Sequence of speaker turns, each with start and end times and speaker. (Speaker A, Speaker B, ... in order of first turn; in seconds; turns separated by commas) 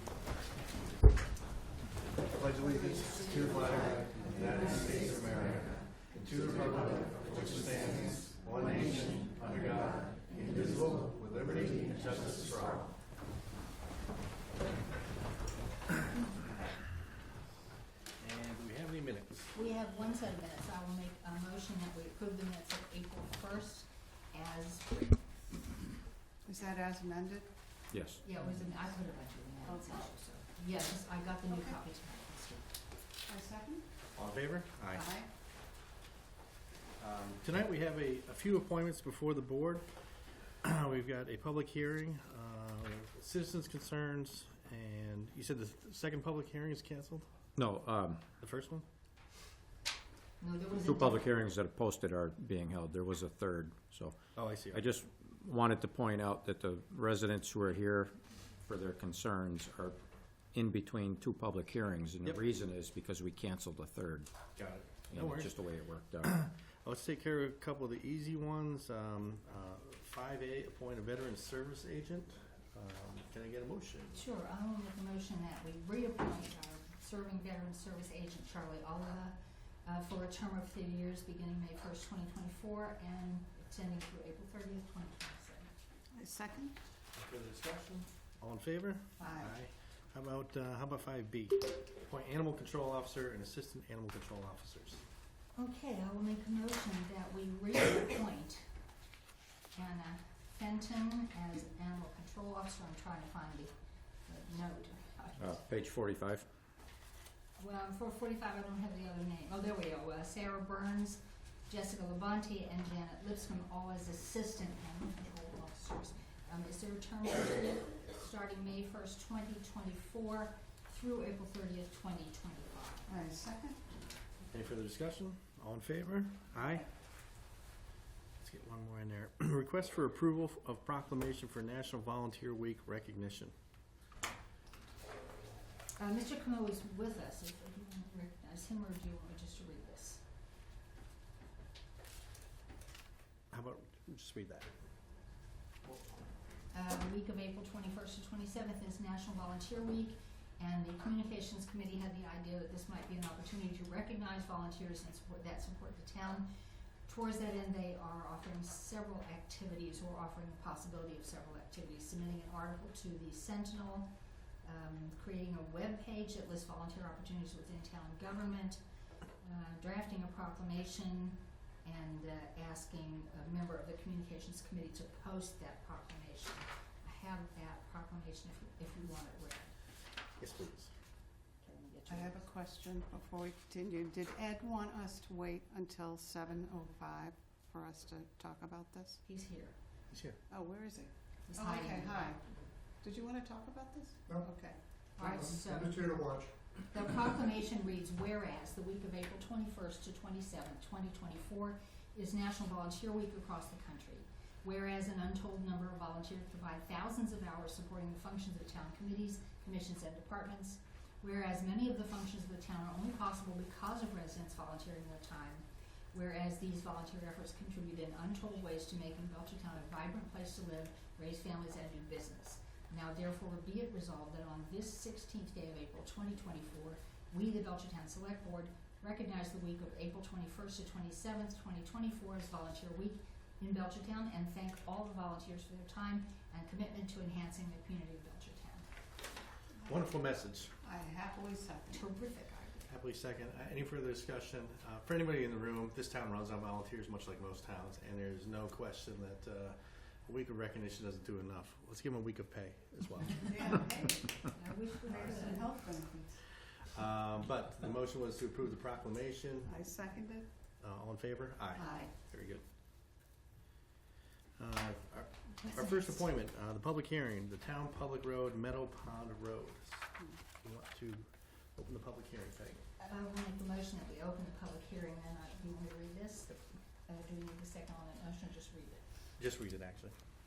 Speaker A: 2.4-12.9, Speaker A: 18.2-19.5, Speaker B: 19.5-25.2, Speaker C: 26.4-27.5, Speaker D: 27.9-28.2, Speaker B: 28.2-32.6, Speaker C: 31.5-31.8, Speaker C: 33.3-33.8, Speaker A: 34.1-35.1, Speaker C: 35.0-35.3, Speaker A: 37.0-39.9, Speaker A: 40.6-47.3, Speaker D: 47.5-48.2, Speaker A: 48.4-48.8, Speaker B: 50.4-51.3, Speaker D: 50.7-60.0, Speaker A: 54.3-54.8, Speaker D: 60.5-64.3, Speaker A: 64.5-65.5, Speaker D: 65.1-66.4, Speaker A: 66.2-74.2, Speaker B: 74.1-85.7, Speaker C: 86.1-86.8, Speaker A: 87.1-95.0, Speaker C: 89.2-89.5, Speaker B: 95.5-98.6, Speaker B: 99.7-103.7, Speaker B: 104.3-105.6, Speaker D: 105.4-106.5, Speaker B: 107.6-123.2, Speaker C: 123.1-123.8, Speaker A: 124.5-126.9, Speaker A: 128.4-133.5, Speaker B: 136.0-140.2, Speaker A: 143.5-144.7, Speaker B: 146.7-156.5, Speaker B: 157.1-164.1, Speaker B: 164.6-168.8, Speaker B: 169.4-179.7, Speaker A: 180.4-180.9, Speaker B: 181.6-182.5, Speaker C: 182.1-189.2, Speaker B: 189.2-189.8, Speaker A: 190.1-190.4, Speaker C: 190.5-192.4, Speaker B: 191.5-192.7, Speaker C: 193.0-195.4, Speaker B: 195.2-238.9, Speaker A: 239.8-240.7, Speaker C: 240.8-242.0, Speaker B: 241.9-242.9, Speaker A: 242.9-253.9, Speaker C: 253.5-254.4, Speaker B: 254.5-255.8, Speaker C: 255.1-256.4, Speaker A: 256.9-259.8, Speaker C: 259.7-260.5, Speaker A: 260.8-262.6, Speaker C: 261.8-262.0, Speaker A: 264.6-270.0, Speaker A: 270.6-272.8, Speaker B: 273.0-279.0, Speaker A: 279.4-280.1